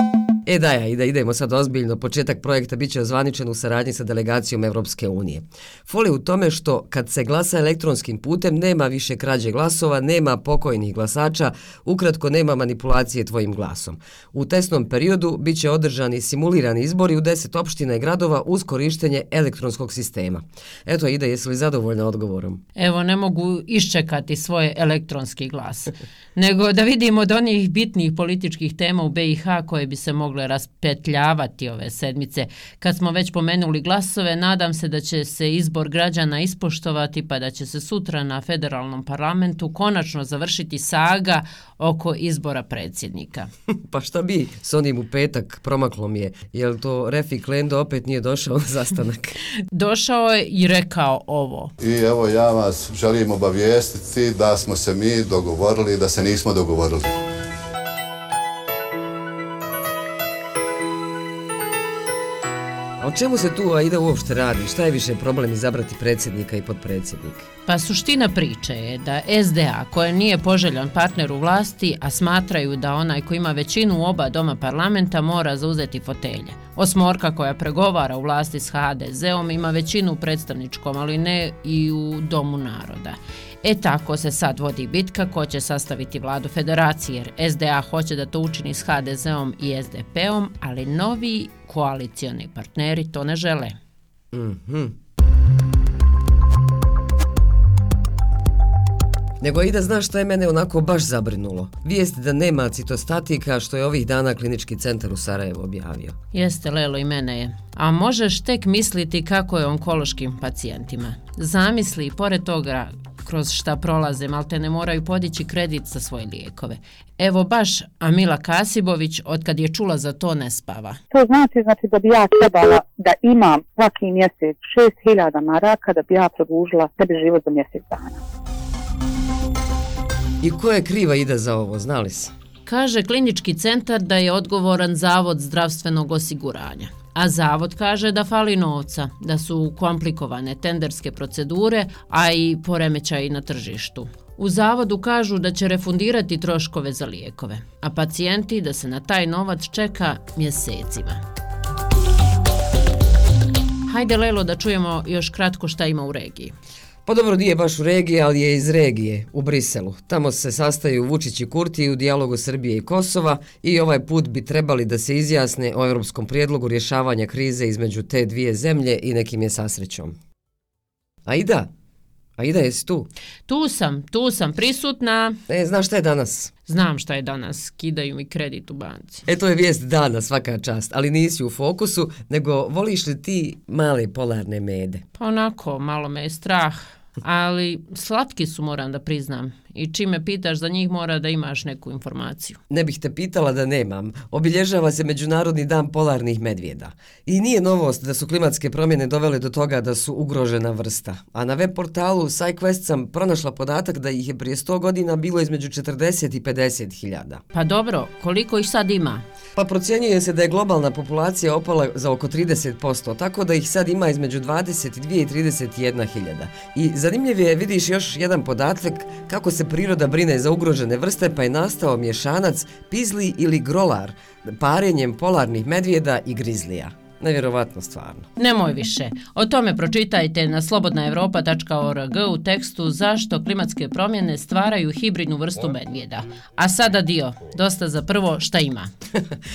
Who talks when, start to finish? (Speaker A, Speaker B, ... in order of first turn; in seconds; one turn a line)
Speaker A: 0.5-22.6
Speaker B: 22.8-43.5
Speaker A: 43.9-49.4
Speaker B: 49.7-51.7
Speaker C: 51.8-57.2
Speaker A: 63.0-67.5
Speaker B: 67.7-93.8
Speaker A: 94.3-94.9
Speaker A: 99.4-106.2
Speaker B: 106.3-121.0
Speaker D: 121.1-128.2
Speaker A: 130.4-132.3
Speaker B: 132.7-151.2
Speaker B: 153.9-156.5
Speaker A: 157.1-170.2
Speaker A: 171.3-171.7
Speaker A: 172.4-173.1
Speaker B: 173.5-175.4
Speaker A: 175.5-176.5
Speaker B: 176.7-179.2
Speaker A: 179.3-185.0
Speaker B: 185.2-192.6
Speaker A: 192.7-207.4
Speaker B: 207.5-209.2
Speaker A: 209.6-228.3
Speaker B: 228.4-238.9